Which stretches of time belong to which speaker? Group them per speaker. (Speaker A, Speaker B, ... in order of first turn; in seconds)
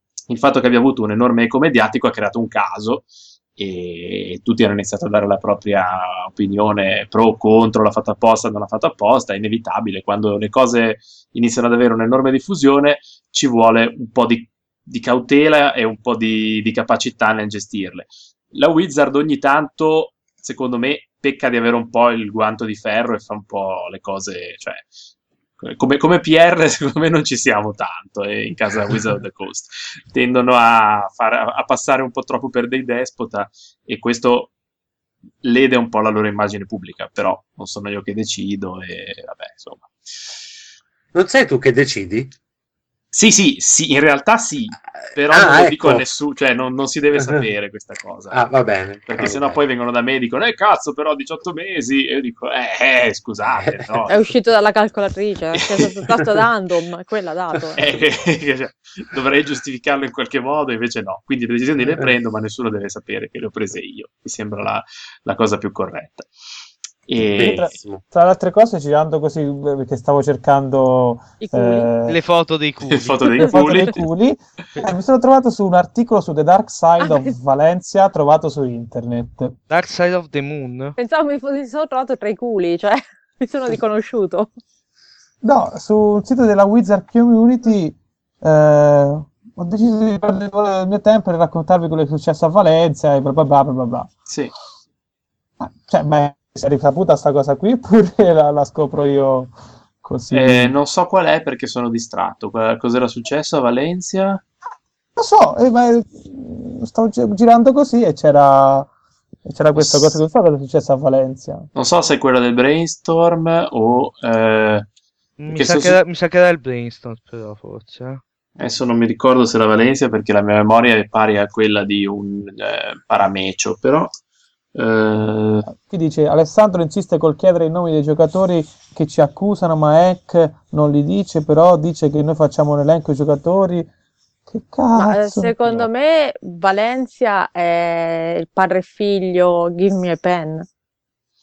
Speaker A: 0.3-24.9, 25.6-34.5, 35.4-39.9, 43.1-48.5, 49.1-54.3, 57.8-66.3, 67.1-67.7, 72.9-74.1, 100.3-104.4, 109.8-110.2, 111.7-114.8, 115.5-116.0, 118.6-124.1, 124.7-125.7
Speaker B: 41.1-42.3, 45.3-46.0, 48.3-49.6, 67.3-68.0
Speaker C: 54.1-57.8, 71.4-71.9, 77.0-77.3, 81.0-84.5, 134.9-140.7
Speaker D: 67.4-72.2, 73.4-79.5, 85.4-94.1, 95.6-100.7, 105.2-108.9, 109.4-111.7, 125.7-133.9, 134.5-135.9
Speaker E: 72.0-73.9, 79.7-81.0, 115.4-118.2